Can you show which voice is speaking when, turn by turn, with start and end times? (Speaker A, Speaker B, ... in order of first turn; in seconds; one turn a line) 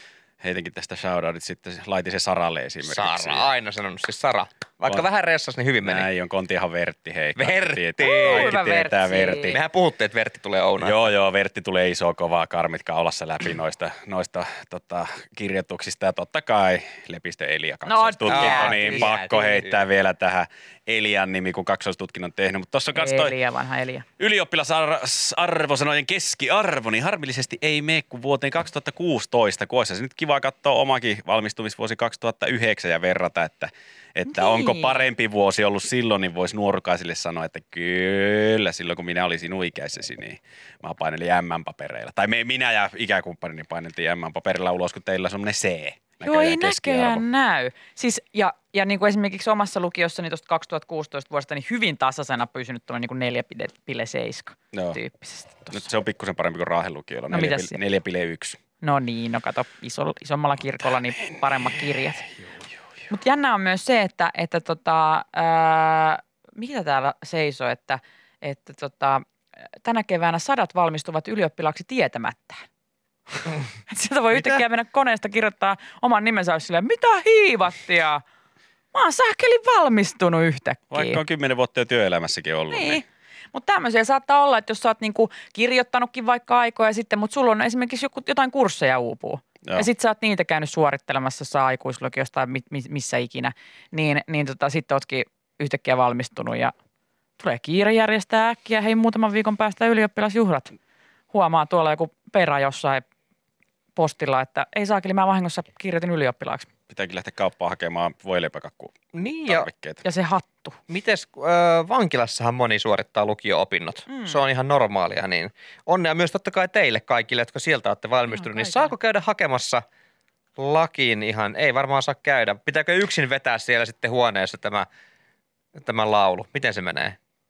Speaker A: 0.4-3.5
Speaker B: 2.8-6.1
Speaker A: 5.8-9.6
Speaker B: 7.4-8.5
Speaker C: 8.0-9.5
Speaker B: 9.5-11.1
Speaker A: 10.8-23.3
Speaker C: 17.9-19.2
Speaker B: 18.2-19.8
Speaker C: 22.9-24.0
Speaker A: 24.2-47.2
Speaker C: 34.3-35.1
Speaker C: 46.2-55.9
Speaker A: 54.7-55.0
Speaker A: 55.7-58.6
Speaker C: 57.3-57.8
Speaker C: 58.8-62.2
Speaker A: 61.3-61.8
Speaker C: 63.1-69.2
Speaker C: 69.8-72.6
Speaker C: 73.3-78.2
Speaker C: 78.9-81.2
Speaker A: 80.9-83.0
Speaker C: 82.7-96.7
Speaker C: 97.4-100.7
Speaker C: 101.3-103.0
Speaker C: 104.0-106.7
Speaker A: 106.9-110.0
Speaker B: 109.1-109.7
Speaker C: 110.0-110.8
Speaker B: 110.9-119.8
Speaker C: 114.1-114.4
Speaker C: 118.3-118.9
Speaker B: 120.6-124.9
Speaker B: 125.8-127.2